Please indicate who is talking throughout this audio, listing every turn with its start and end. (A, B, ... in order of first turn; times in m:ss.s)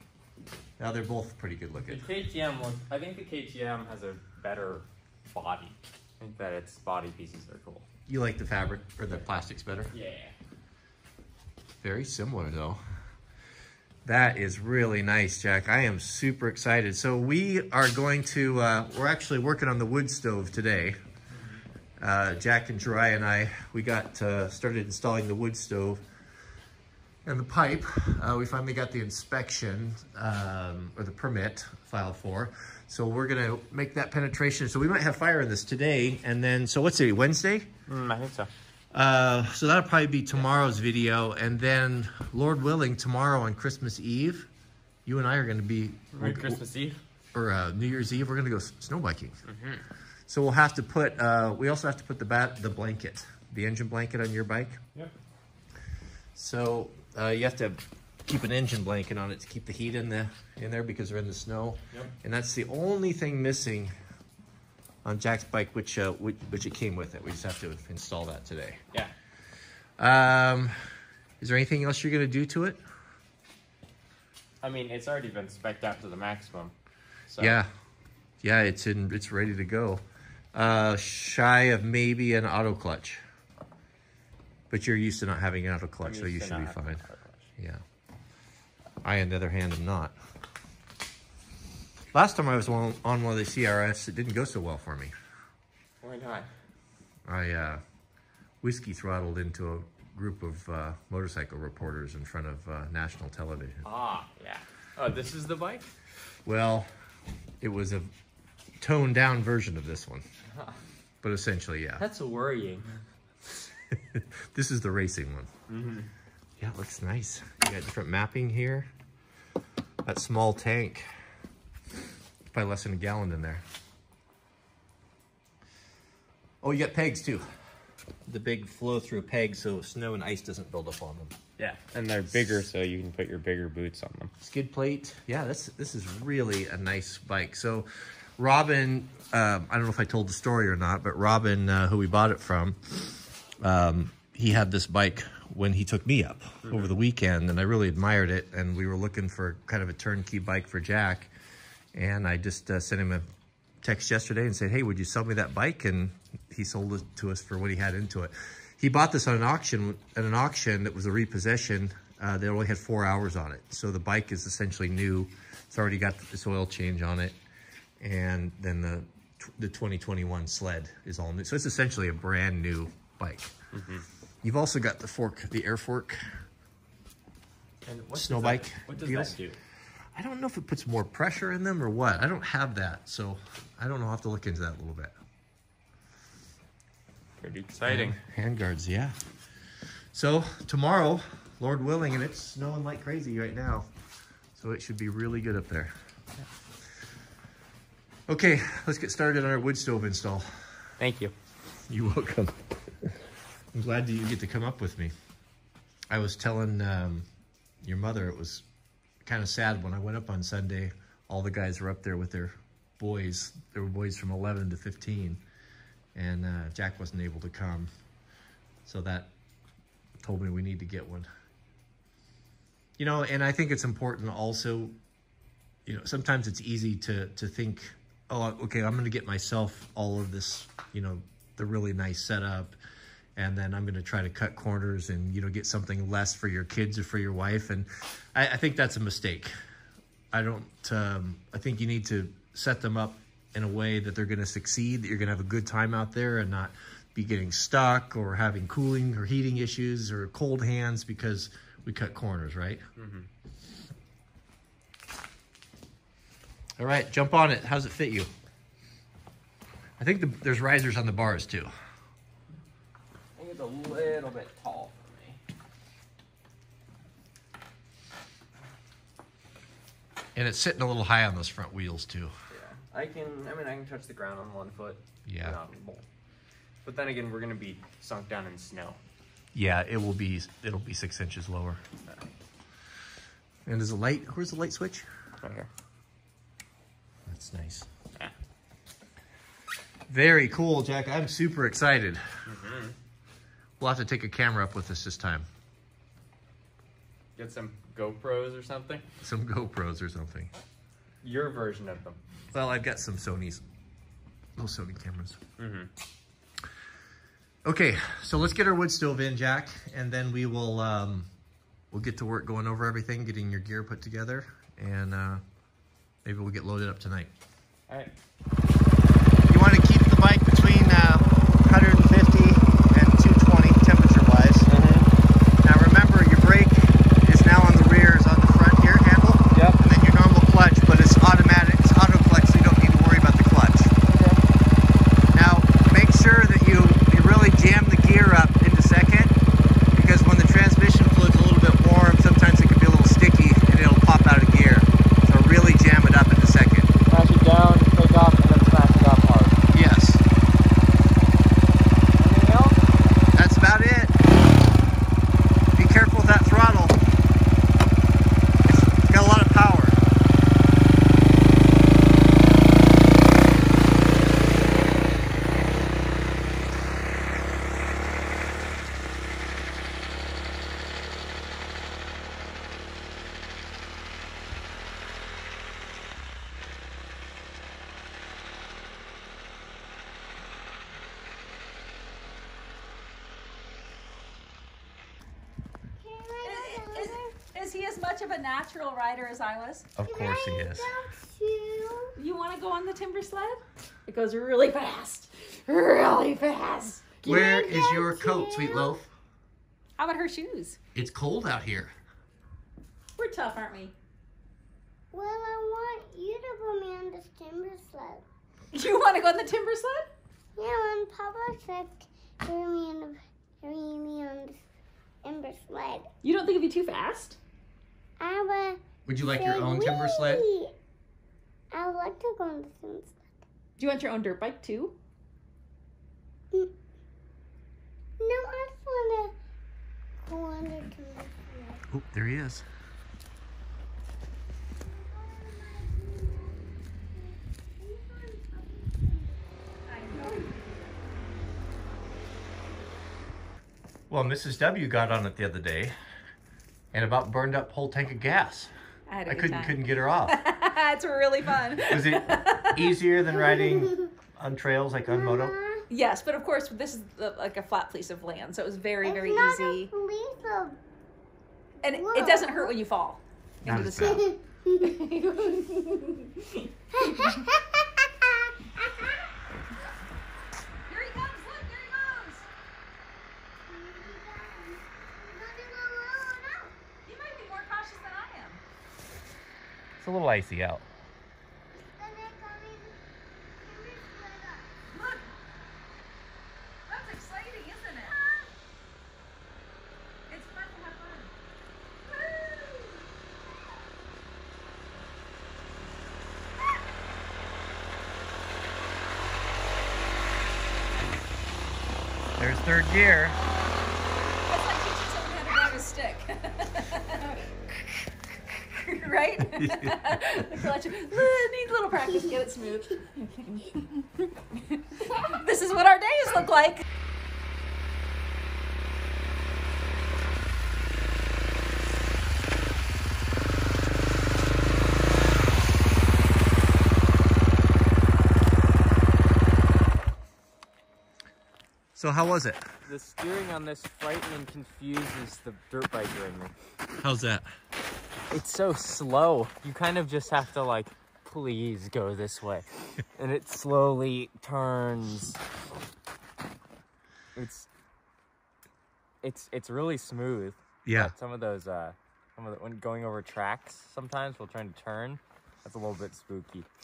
0:00.8-0:02.0 A
0:01.8-0:07.9 B
0:08.1-0:09.9 A
0:09.9-0:10.3 B
0:11.8-0:12.8 A
0:14.0-0:21.0 A
0:21.3-0:21.6 B
0:22.0-0:26.0 A
0:27.2-0:37.7 A
0:37.9-0:38.5 B
0:38.9-0:44.5 A
0:45.0-0:46.6 A
0:46.1-0:47.0 B
0:47.3-0:49.4 A
0:49.4-0:49.8 B
0:50.3-0:54.8 A
0:56.4-1:03.9 A
1:05.0-1:08.8 A
1:10.0-1:10.7 A
1:11.4-1:12.8 A
1:14.6-1:16.7 B
1:17.3-1:17.6 B
1:17.4-1:17.7 A
1:18.4-1:20.0 A
1:20.5-1:23.2 A
1:24.7-1:27.0 A
1:26.0-1:27.4 B
1:27.6-1:27.8 A
1:29.0-1:30.1 A
1:32.1-1:35.1 A
1:36.0-1:36.5 B
1:37.2-1:37.8 A
1:38.6-1:43.8 A
1:43.8-1:45.9 B
1:46.4-1:46.9 A
1:47.6-1:48.1 A
1:48.8-1:50.2 A
1:50.5-1:50.8 B
1:51.2-1:52.0 A
1:52.0-1:52.9 B
1:53.9-1:55.5 A
1:55.7-1:56.1 B
1:56.6-1:58.9 A
2:00.0-2:01.1 A
2:02.5-2:03.6 A
2:06.6-2:07.5 A
2:08.2-2:11.3 A
2:11.6-2:14.3 B
2:14.4-2:23.1 A
2:23.6-2:31.3 A
2:26.6-2:27.0 B
2:31.9-2:33.2 A
2:33.8-2:47.4 A
2:48.0-2:53.5 A
2:53.7-2:54.0 B
2:54.4-2:56.2 A
2:57.8-2:59.6 B
2:58.1-2:59.4 A
3:00.1-3:05.1 A
3:07.4-3:08.2 B
3:07.8-3:09.2 A
3:10.1-3:13.9 A
3:14.6-3:15.9 A
3:18.3-3:20.5 A
3:21.0-3:21.3 B
3:21.9-3:23.1 A
3:23.7-3:25.1 A
3:26.1-3:27.2 A
3:27.8-3:28.6 A
3:29.2-3:35.4 A
3:36.1-3:37.9 A
3:38.8-3:39.3 A
3:40.2-3:41.3 A
3:43.0-3:45.0 A
3:45.8-3:52.8 A
3:53.4-3:59.5 A
4:00.3-4:12.8 A
4:13.0-4:13.3 B
4:16.8-4:18.3 A
4:20.0-4:21.7 A
4:23.4-4:25.4 B
4:30.3-4:32.3 A
4:32.5-4:36.0 B
4:35.2-4:35.6 A
4:36.8-4:39.0 B
4:39.5-4:41.8 A
4:43.6-4:45.1 A
4:45.4-4:45.7 B
4:47.3-4:47.9 A
4:50.1-4:52.2 A
4:52.4-4:53.0 B
4:53.8-4:55.4 A
4:57.4-4:59.0 B
4:59.2-5:00.5 A
5:01.2-5:02.2 B
5:02.5-5:03.6 A
5:04.6-5:05.4 A
5:05.6-5:05.9 B
5:07.6-5:11.3 A
5:11.9-5:15.4 A
5:16.2-5:17.3 A
5:17.9-5:18.1 B
5:19.5-5:24.7 A
5:24.7-5:25.1 B
5:25.6-5:33.9 A
5:29.5-5:29.8 B
5:34.0-5:34.4 B
5:35.3-5:39.3 A
5:39.9-5:46.9 A
5:47.1-5:49.6 B
5:49.7-5:50.2 A
5:52.2-5:52.8 B
5:53.3-5:54.1 A
5:55.7-5:57.0 A
5:59.0-6:00.0 A
6:26.0-6:27.3 C
6:26.4-6:29.9 D
6:30.0-6:31.0 A
6:30.0-6:32.1 C
6:32.2-6:37.4 D
6:37.2-6:39.1 A
6:37.3-6:38.9 C
6:40.0-6:40.8 D
6:40.9-6:41.9 A
6:43.2-6:43.9 D
6:45.1-6:48.2 C
6:48.7-6:50.1 D
6:50.6-6:54.6 C
6:55.2-6:56.1 C
6:56.2-6:57.4 D
6:58.2-7:00.7 C
6:59.0-7:00.5 A
7:01.7-7:03.1 C
7:03.8-7:05.0 D
7:08.2-7:09.3 C
7:10.2-7:11.8 C
7:11.9-7:12.6 A
7:14.8-7:16.6 C
7:17.1-7:20.2 C
7:19.9-7:20.5 D
7:24.1-7:25.9 A
7:26.9-7:28.7 A
7:29.1-7:33.0 D
7:29.2-7:30.4 A
7:31.8-7:35.6 A
7:33.4-7:34.1 C
7:35.1-7:35.8 C
7:35.9-7:39.9 D
7:39.0-7:40.8 C
7:41.8-7:42.7 C
7:41.8-7:44.3 D
7:43.6-7:44.2 A
7:44.0-7:44.9 C
7:44.8-7:47.4 D
7:47.0-7:48.3 C
7:50.9-7:52.5 D
7:53.7-7:56.7 C
7:57.0-7:58.6 D
8:00.0-8:00.8 A
8:01.7-8:03.0 C
8:03.6-8:04.7 C
8:04.9-8:05.2 D
8:06.9-8:08.2 D
8:10.3-8:11.3 D
8:22.4-8:23.4 A
8:24.5-8:27.4 D
8:28.8-8:33.8 D
8:29.5-8:30.2 A
8:35.1-8:36.8 D
8:51.9-8:52.6 A
8:52.8-8:56.5 B
8:57.0-8:57.4 A
8:58.3-9:05.4 B
9:07.4-9:07.7 B
9:09.2-9:16.7 B
9:10.8-9:11.1 A